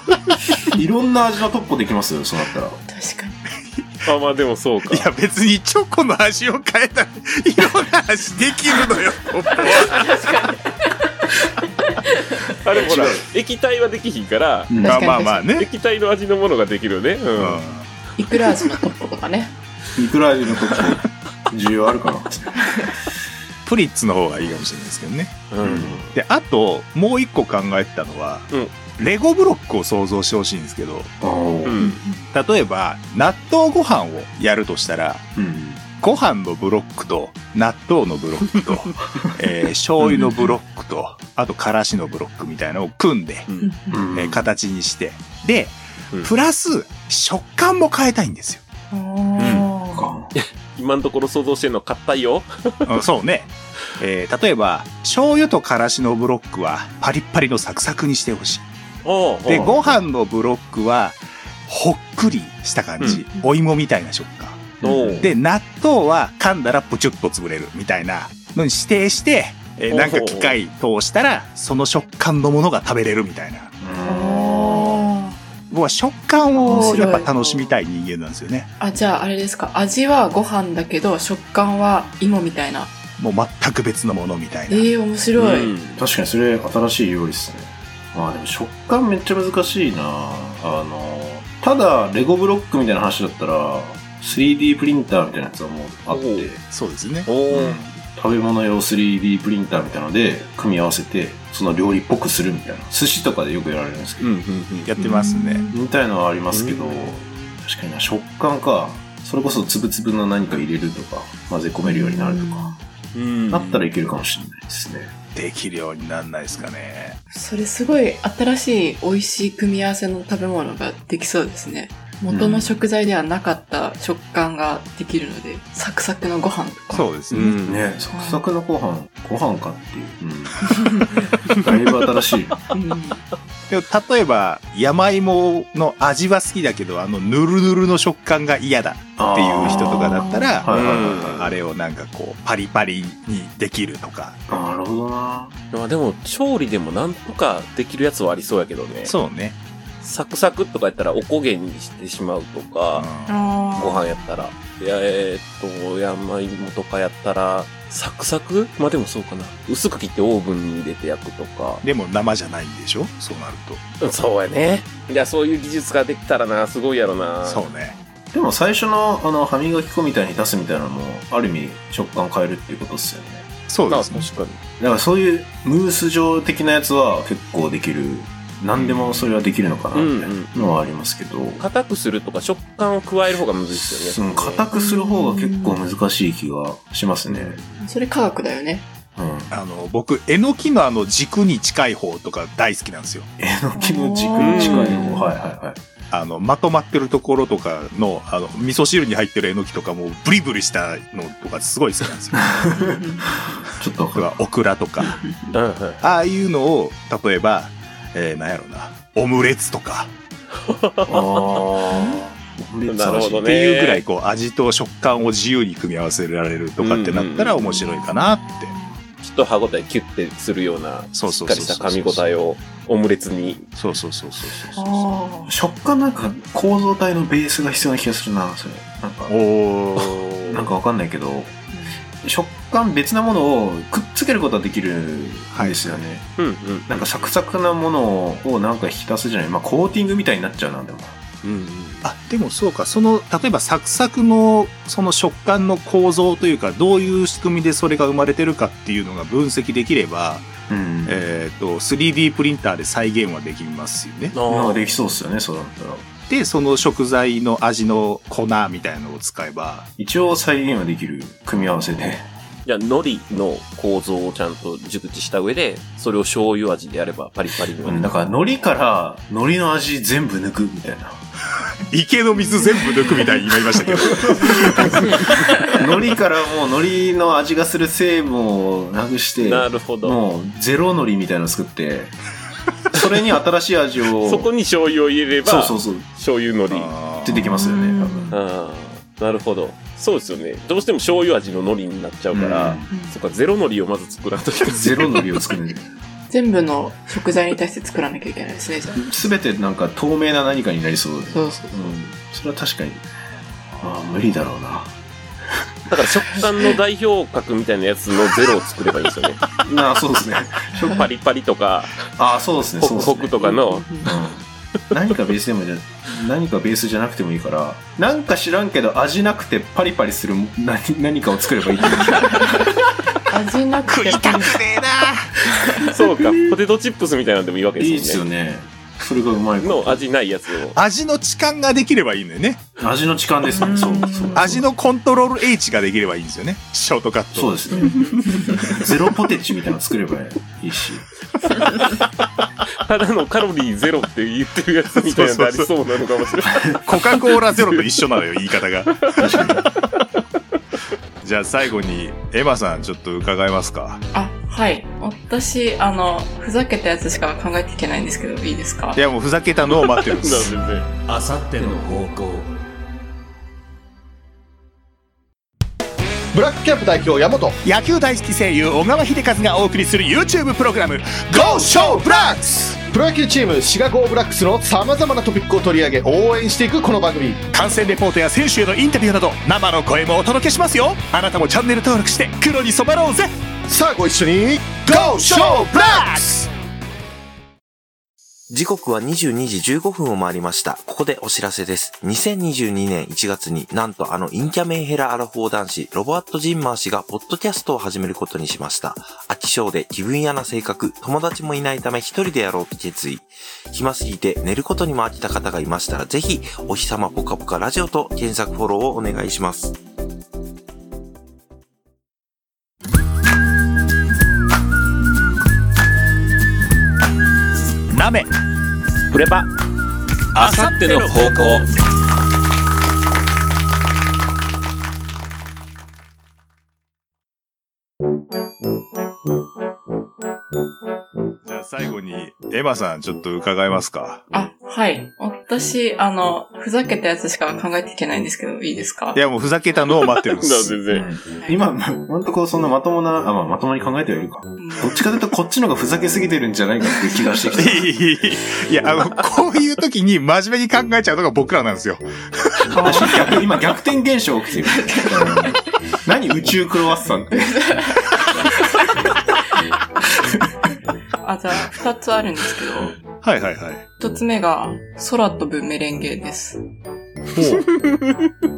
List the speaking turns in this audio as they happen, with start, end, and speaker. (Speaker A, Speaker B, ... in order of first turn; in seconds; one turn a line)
Speaker A: 0.7-2.8
Speaker B: 2.9-3.4
Speaker C: 4.0-5.1
Speaker D: 4.9-10.2
Speaker B: 9.6-11.3
Speaker B: 11.9-12.5
Speaker C: 12.6-14.7
Speaker A: 12.7-13.2
Speaker A: 14.7-15.0
Speaker D: 14.8-15.7
Speaker B: 14.8-15.5
Speaker C: 15.6-17.6
Speaker D: 17.3-17.9
Speaker B: 18.2-19.5
Speaker A: 19.9-22.9
Speaker D: 23.6-25.5
Speaker C: 25.5-26.1
Speaker A: 25.6-26.0
Speaker D: 26.1-31.1
Speaker A: 31.2-32.0
Speaker C: 31.6-32.0
Speaker D: 32.3-35.2
Speaker A: 35.4-35.9
Speaker D: 36.0-43.5
Speaker C: 43.5-43.7
Speaker B: 43.6-44.0
Speaker A: 43.9-44.4
Speaker D: 44.1-48.6
Speaker B: 48.9-50.1
Speaker C: 49.4-49.6
Speaker A: 49.9-50.3
Speaker C: 50.3-53.0
Speaker D: 52.8-58.6
Speaker C: 59.0-59.9
Speaker D: 59.5-73.7
Speaker A: 64.8-65.3
Speaker C: 64.8-65.3
Speaker C: 69.9-70.5
Speaker A: 73.8-74.9
Speaker B: 74.0-75.3
Speaker D: 75.7-78.7
Speaker A: 76.6-77.0
Speaker B: 76.6-77.7
Speaker B: 78.8-82.9
Speaker D: 83.2-84.9
Speaker B: 84.7-85.7
Speaker C: 85.4-86.0
Speaker A: 86.0-96.6
Speaker C: 96.1-96.5
Speaker D: 96.7-97.3
Speaker C: 97.3-97.9
Speaker A: 97.5-104.3
Speaker C: 104.2-104.9
Speaker D: 104.8-105.6
Speaker B: 105.0-105.7
Speaker A: 105.7-112.7
Speaker C: 106.5-107.4
Speaker B: 111.9-112.8
Speaker C: 113.1-113.9
Speaker A: 113.5-115.1
Speaker D: 115.3-117.2
Speaker B: 117.3-127.1
Speaker A: 122.3-122.8
Speaker D: 126.9-127.6
Speaker C: 127.3-127.8
Speaker A: 127.6-132.7
Speaker B: 128.1-128.4
Speaker B: 132.7-133.2
Speaker D: 133.7-144.4
Speaker A: 139.2-141.4
Speaker B: 139.8-140.6
Speaker C: 140.7-141.5
Speaker A: 144.5-145.5
Speaker C: 145.7-149.1
Speaker D: 149.0-149.6
Speaker C: 150.0-153.1
Speaker D: 152.9-153.3
Speaker B: 153.3-154.2
Speaker C: 153.7-161.8
Speaker D: 161.8-163.8
Speaker C: 164.0-167.7
Speaker D: 167.4-167.9
Speaker A: 168.3-173.5
Speaker D: 173.7-174.3
Speaker C: 173.9-174.6
Speaker A: 174.8-181.6
Speaker C: 178.8-179.2
Speaker C: 179.9-180.5
Speaker C: 181.6-184.6
Speaker A: 183.7-187.6
Speaker B: 184.7-185.8
Speaker C: 187.3-187.6
Speaker B: 187.8-188.9
Speaker A: 189.2-189.5
Speaker D: 189.5-193.3
Speaker A: 193.4-195.8
Speaker B: 193.8-195.3
Speaker C: 194.4-195.2
Speaker D: 196.1-202.7
Speaker A: 202.4-204.3
Speaker B: 202.8-203.3
Speaker D: 204.1-205.2
Speaker C: 205.5-206.0
Speaker D: 206.0-210.1
Speaker C: 210.7-212.1
Speaker A: 211.1-213.5
Speaker B: 211.9-212.2
Speaker C: 212.9-214.0
Speaker D: 213.4-218.7
Speaker C: 216.8-217.8
Speaker B: 218.4-218.8
Speaker C: 219.2-223.7
Speaker D: 221.1-222.2
Speaker D: 223.8-225.2
Speaker B: 224.8-225.5
Speaker A: 225.5-229.3
Speaker D: 229.3-230.6
Speaker A: 230.5-231.6
Speaker A: 232.2-236.3
Speaker D: 235.5-236.0
Speaker C: 236.4-237.1
Speaker A: 236.9-241.2
Speaker C: 241.4-242.0
Speaker D: 242.0-250.5
Speaker A: 250.7-251.2
Speaker D: 251.1-254.3
Speaker C: 254.3-254.9
Speaker A: 254.5-256.1
Speaker D: 256.3-259.9
Speaker A: 260.0-262.2
Speaker C: 262.6-268.1
Speaker A: 267.8-271.2
Speaker D: 271.9-275.1
Speaker A: 274.1-275.1
Speaker A: 275.7-282.1
Speaker C: 279.4-280.2
Speaker A: 282.9-284.5
Speaker C: 284.2-286.9
Speaker A: 285.4-286.1
Speaker D: 286.7-287.5
Speaker A: 287.2-288.4
Speaker B: 287.3-288.3
Speaker C: 288.3-295.3
Speaker A: 292.3-292.9
Speaker A: 294.7-295.9
Speaker B: 296.3-299.0
Speaker A: 298.9-303.0
Speaker B: 301.3-301.9
Speaker A: 303.8-304.9
Speaker C: 305.9-309.4
Speaker A: 309.6-311.0
Speaker C: 310.8-312.0
Speaker A: 312.2-313.5
Speaker C: 312.8-314.0
Speaker B: 313.4-314.1
Speaker A: 314.0-322.6
Speaker B: 323.3-324.6
Speaker D: 323.9-325.3
Speaker C: 325.9-328.2
Speaker A: 327.8-330.0
Speaker C: 329.6-330.8
Speaker D: 330.7-332.6
Speaker A: 332.8-334.6
Speaker D: 334.3-337.6
Speaker A: 337.3-341.0
Speaker C: 342.8-346.8
Speaker D: 344.9-345.7
Speaker D: 346.8-349.2
Speaker A: 349.1-349.6
Speaker D: 351.2-354.0
Speaker B: 354.1-359.0
Speaker D: 358.9-360.6
Speaker C: 359.7-360.9
Speaker E: 361.0-362.5
Speaker F: 366.3-367.6
Speaker D: 367.6-372.8
Speaker F: 371.3-377.4
Speaker D: 377.5-383.3
Speaker F: 383.7-386.2
Speaker D: 384.9-386.5
Speaker G: 388.5-409.7
Speaker D: 417.9-418.3
Speaker C: 420.3-421.6
Speaker E: 420.4-421.4
Speaker D: 431.4-434.2
Speaker B: 434.3-439.2
Speaker D: 439.1-440.8
Speaker C: 440.2-441.1
Speaker A: 440.9-447.9
Speaker B: 444.6-445.0
Speaker D: 447.6-453.3
Speaker B: 452.7-453.3
Speaker A: 452.8-457.7
Speaker B: 454.7-455.5
Speaker B: 457.3-458.2
Speaker B: 461.2-462.9
Speaker D: 463.2-463.8
Speaker B: 464.0-466.6
Speaker D: 467.3-467.7
Speaker C: 467.4-468.3